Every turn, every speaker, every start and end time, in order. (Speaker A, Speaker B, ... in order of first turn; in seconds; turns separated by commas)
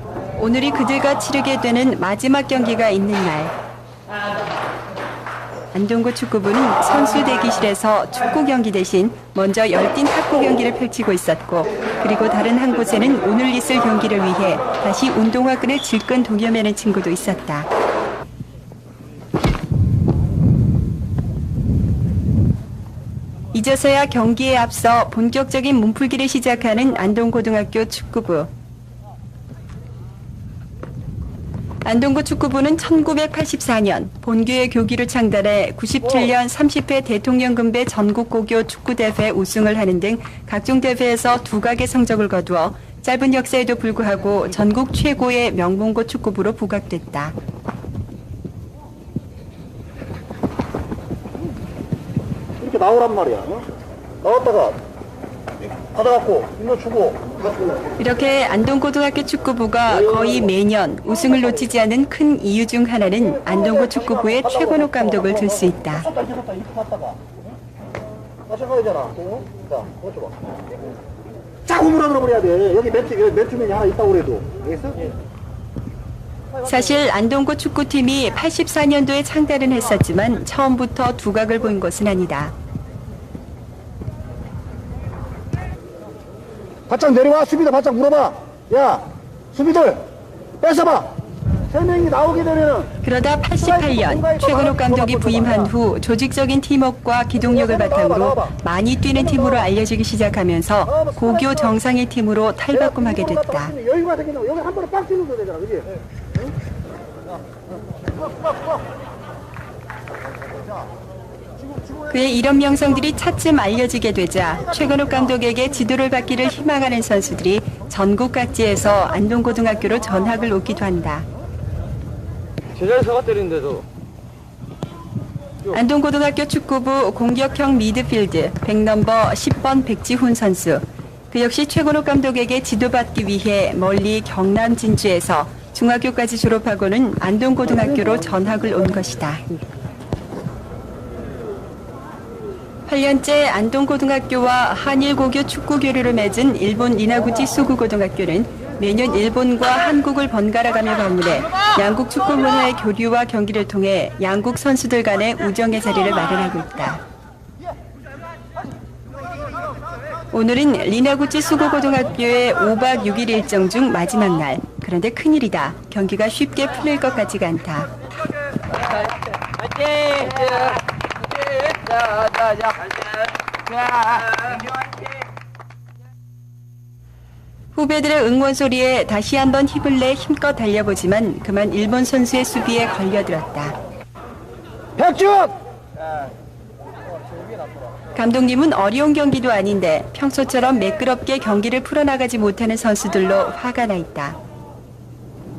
Speaker A: 0.3-3.5, Speaker A: 5.7-17.7, Speaker A: 23.5-28.5, Speaker A: 31.8-47.4, Speaker B: 52.6-53.6, Speaker B: 54.2-54.8, Speaker B: 55.8-57.9, Speaker A: 58.0-66.1, Speaker B: 63.4-67.3, Speaker B: 68.5-70.4, Speaker B: 71.7-75.1, Speaker A: 76.6-82.5, Speaker B: 86.9-90.0, Speaker B: 90.6-91.1, Speaker B: 91.7-92.9, Speaker A: 93.0-103.7, Speaker B: 93.6-95.7, Speaker B: 97.4-98.5, Speaker B: 99.2-99.7, Speaker B: 100.9-101.7, Speaker B: 102.7-106.0, Speaker A: 112.1-121.2, Speaker A: 125.7-139.4, Speaker A: 142.9-157.0, Speaker A: 160.3-167.9, Speaker C: 169.6-170.8, Speaker C: 171.6-173.1, Speaker C: 173.7-174.6, Speaker A: 177.7-183.8, Speaker B: 185.0-185.6, Speaker A: 188.1-194.4